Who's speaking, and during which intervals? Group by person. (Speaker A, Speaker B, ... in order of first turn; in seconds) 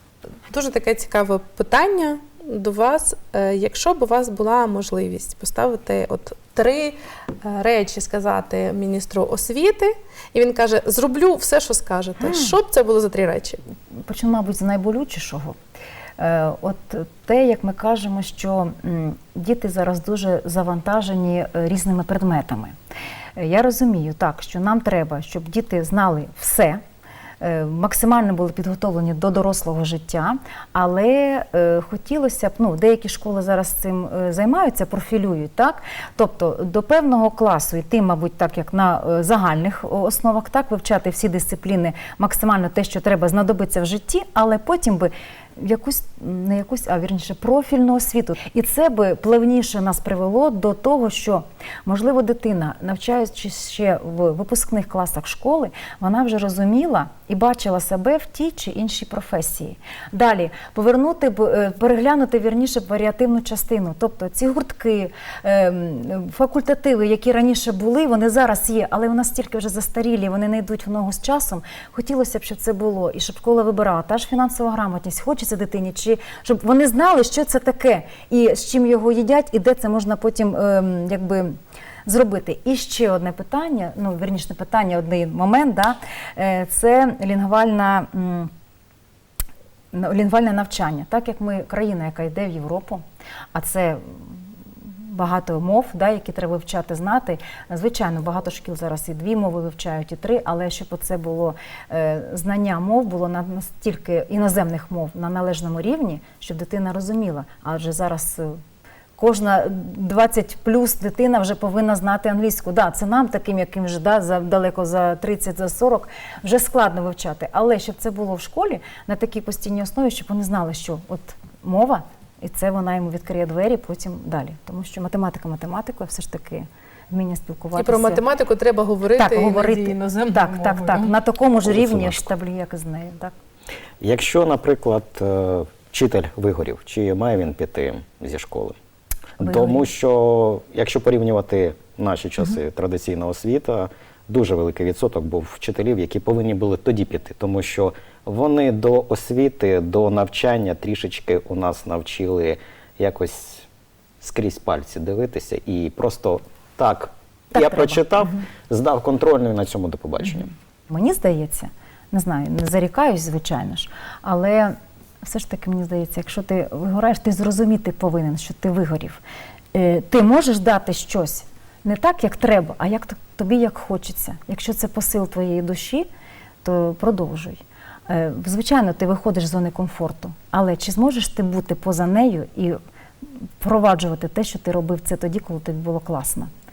Speaker A: 0.5-13.6, 127.8-131.1
Speaker B: 12.2-12.5, 14.1-15.6, 16.2-22.8, 23.4-26.8, 27.4-88.5, 89.9-93.0, 93.5-108.6, 109.2-128.2, 129.2-133.3, 139.4-139.9, 157.5-158.4, 160.9-169.2, 169.7-176.1, 176.6-182.8, 183.6-186.5
Speaker C: 131.7-132.3, 134.0-138.8, 139.4-153.7, 154.2-160.5